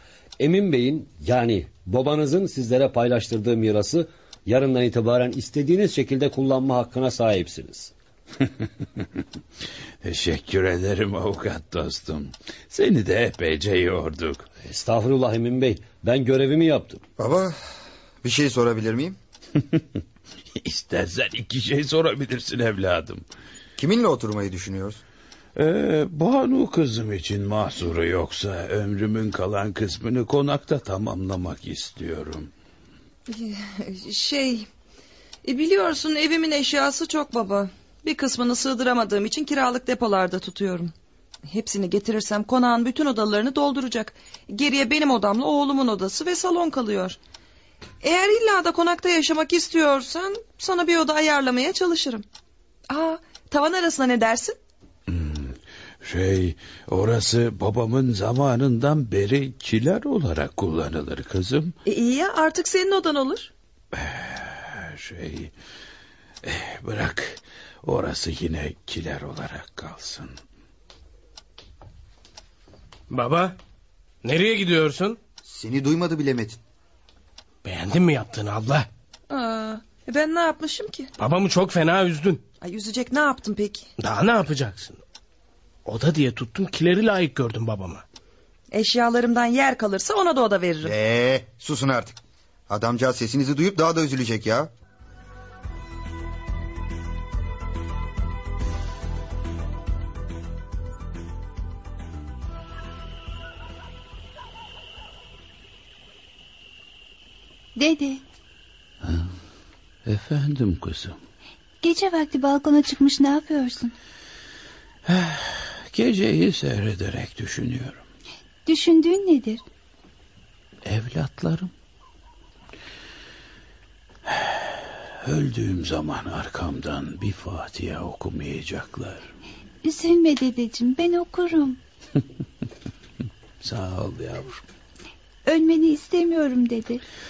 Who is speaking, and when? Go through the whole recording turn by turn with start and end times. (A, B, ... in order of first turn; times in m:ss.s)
0:00.4-0:07.9 A
0:10.0-0:14.5 B
0:14.6-0:17.0 A
0:17.2-0:17.6 C
0:18.2-0:19.2 C
0:20.6-0:23.2 B
0:23.8-0:25.0 C
0:25.6-0:32.5 B
0:33.3-0:34.7 D
0:35.4-0:40.9 D
0:41.5-0:47.2 D
0:48.0-0:52.2 D
0:52.9-0:54.6 D
0:55.1-1:01.8 B
1:01.8-1:03.5 D
1:03.9-1:05.5 B
1:06.4-1:10.4 B
1:13.1-1:13.6 E
1:14.2-1:15.2 E
1:15.4-1:16.6 C
1:17.6-1:18.9 E
1:19.3-1:21.1 D
1:21.2-1:22.4 E
1:22.6-1:23.9 D
1:24.0-1:25.0 E
1:25.9-1:28.0 E
1:28.7-1:30.9 D
1:30.8-1:32.2 C
1:32.7-1:34.7 C
1:47.8-1:48.2 F
1:49.0-1:49.3 B
1:50.0-1:51.2 B
1:51.8-1:53.9 F
1:55.1-1:58.0 B
1:58.7-1:59.6 F
2:00.8-2:01.7 B
2:04.3-2:09.3 B
2:09.8-2:11.8 F
2:13.6-2:14.6 B
2:15.5-2:17.0 F